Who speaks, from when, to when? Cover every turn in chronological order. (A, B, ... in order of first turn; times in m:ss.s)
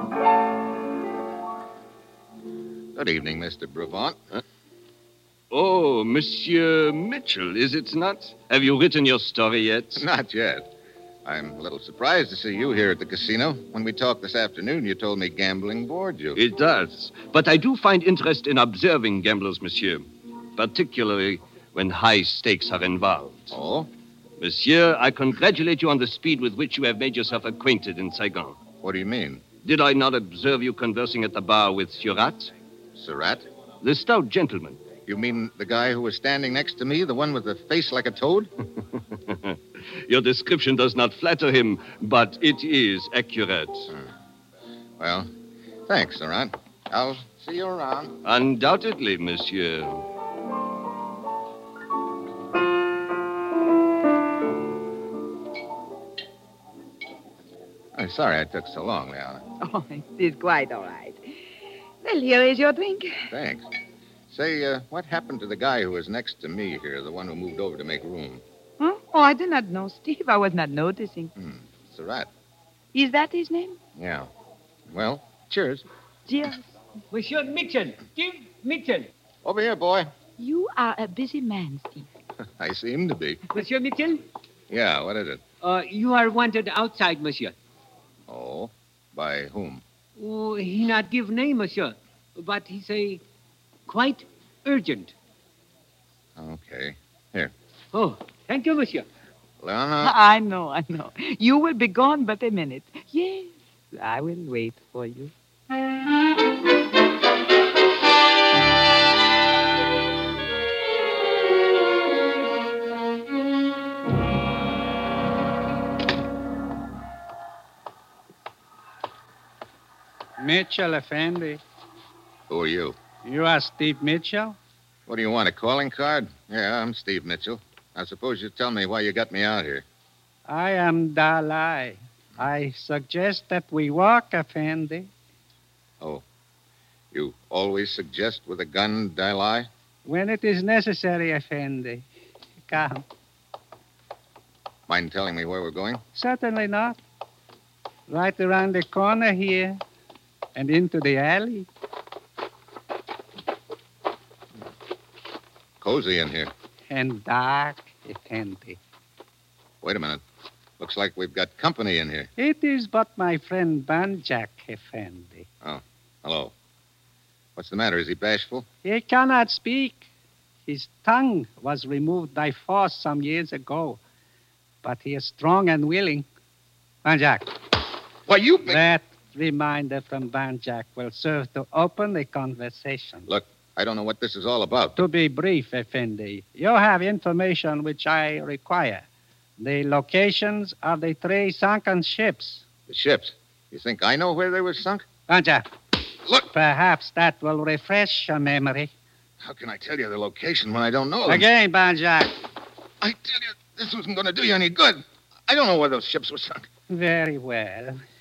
0:02.9-0:04.2 A
0:05.5-0:10.0 B
0:10.0-0:10.7 A
0:11.2-0:16.4 A
0:16.4-0:23.6 B
0:23.5-0:23.9 A
0:24.4-0:28.6 B
0:28.8-0:29.4 A
0:29.6-0:32.5 B
0:32.9-0:33.4 A
0:33.8-0:34.8 B
0:35.1-0:38.5 A
0:39.3-0:43.9 B
0:45.0-0:45.3 A
0:45.9-0:48.2 A
0:48.2-0:50.0 B
0:57.9-0:59.4 A
0:59.6-1:01.4 C
1:02.0-1:03.2 C
1:03.3-1:03.7 A
1:04.3-1:08.4 A
1:08.8-1:11.3 C
1:11.4-1:12.3 A
1:12.9-1:13.8 C
1:14.0-1:14.3 A
1:14.9-1:15.8 A
1:16.3-1:16.7 C
1:17.1-1:19.1 D
1:19.4-1:20.1 A
1:20.4-1:22.1 C
1:22.4-1:23.4 A
1:23.5-1:24.2 D
1:24.7-1:25.4 A
1:25.6-1:27.5 D
1:28.3-1:29.8 A
1:30.2-1:33.2 D
1:33.9-1:35.1 D
1:36.4-1:37.5 A
1:37.9-1:39.0 D
1:39.6-1:40.1 A
1:40.0-1:45.3 C
2:00.4-2:01.6 E
2:02.5-2:03.0 A
2:03.2-2:04.6 E
2:05.1-2:09.8 A
2:10.4-2:15.1 E
2:17.1-2:19.7 A
2:20.0-2:22.0 E
2:22.7-2:23.0 E
2:24.9-2:26.0 A
2:26.1-2:27.0 E
2:28.1-2:29.8 E
2:30.5-2:31.7 E
2:35.8-2:36.5 A
2:36.9-2:38.8 E
2:39.8-2:40.2 A
2:40.8-2:42.3 A
2:42.4-2:45.5 E
2:45.6-2:46.5 A
2:47.6-2:48.7 A
2:48.8-2:50.1 E
2:50.6-2:54.0 E
2:54.8-2:56.3 E
2:57.0-2:57.6 E
2:58.3-2:58.8 A
2:58.6-3:03.3 E
3:03.3-3:05.0 A
3:05.0-3:09.0 E
3:09.6-3:12.6 E
3:12.9-3:15.0 A
3:15.3-3:15.7 E
3:16.4-3:18.9 E
3:19.4-3:21.5 A
3:21.2-3:22.4 E
3:23.0-3:26.7 A
3:26.9-3:28.0 E